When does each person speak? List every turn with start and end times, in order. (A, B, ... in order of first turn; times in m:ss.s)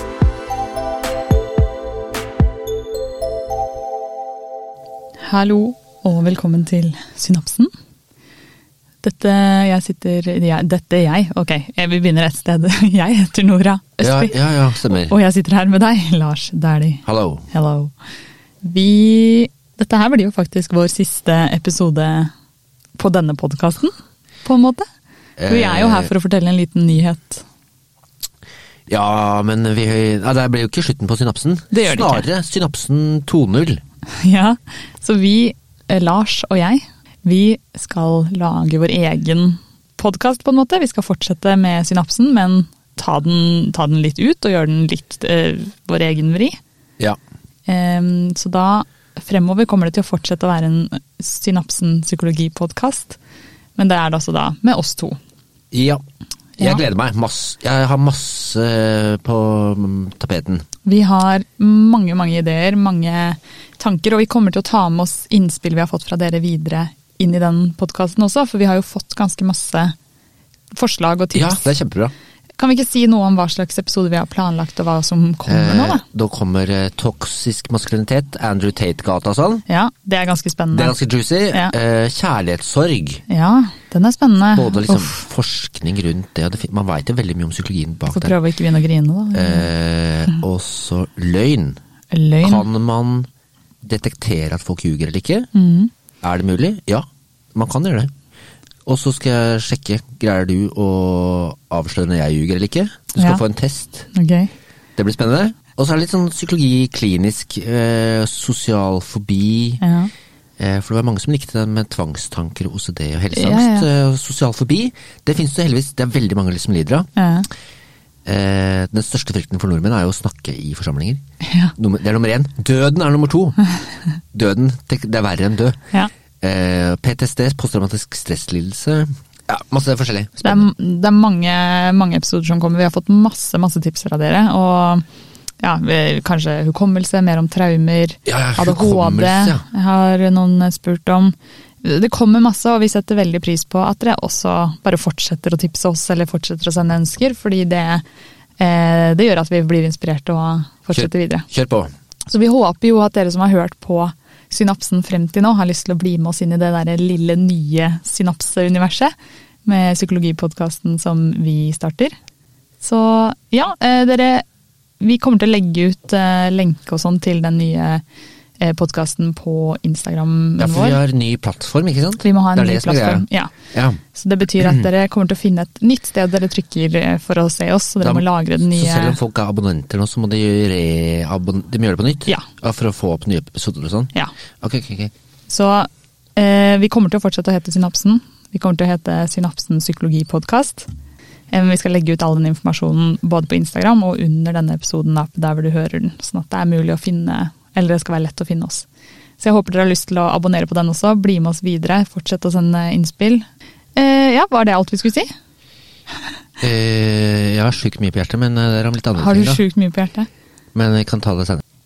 0:05.2-0:07.7 A
0:09.0-0:14.4 A
0:14.0-0:15.2 B
0:15.0-0:17.9 A
0:17.0-0:17.5 B
0:18.6-0:22.3 A
0:23.0-0:23.9 A
0:24.4-0:24.8 A
0:25.4-0:26.1 B
0:25.4-0:27.4 A
0:28.9-0:33.8 B
0:31.7-0:32.3 A
0:34.2-0:46.6 A
0:47.6-0:53.2 A
0:53.8-0:55.2 A
0:55.7-0:56.0 B
0:56.6-0:56.8 A
0:56.6-1:00.6 B
1:00.8-1:09.9 A
1:10.7-1:11.7 A
1:11.3-1:12.1 B
1:12.6-1:16.0 A
1:15.5-1:19.6 B
1:19.7-1:20.9 A
1:20.7-1:23.2 B
1:23.3-1:25.2 A
1:24.5-1:28.4 B
1:28.1-1:29.7 A
1:29.3-1:31.8 B
1:32.1-1:32.6 A
1:32.4-1:33.3 B
1:33.8-1:35.5 B
1:35.5-1:35.9 A
1:36.2-1:38.1 B
1:38.8-1:44.1 B
1:43.2-1:43.4 A
1:44.1-1:44.5 A
1:45.0-1:49.8 B
1:49.8-1:50.1 A
1:50.6-1:57.1 B
1:53.3-1:53.9 A
1:57.2-1:57.5 A
1:58.2-2:01.2 B
2:01.4-2:01.7 A
2:01.8-2:03.6 B
2:04.3-2:05.8 B
2:06.4-2:10.6 B
2:10.4-2:15.0 A
2:15.6-2:28.0 A
2:18.3-2:19.6 B
2:28.6-2:31.5 A
2:30.9-2:31.9 B
2:32.3-2:39.1 A
2:39.6-2:42.1 A
2:42.8-2:44.4 A
2:45.0-2:48.0 A
2:48.6-2:51.0 A
2:50.6-2:54.0 B
2:52.2-2:53.5 A
2:54.1-2:59.2 A
2:58.0-3:05.1 B
3:05.5-3:10.9 A
3:11.5-3:18.8 A
3:19.4-3:23.4 A
3:23.9-3:25.3 A
3:26.6-3:29.6 B
3:29.2-3:30.3 A
3:30.7-3:31.6 B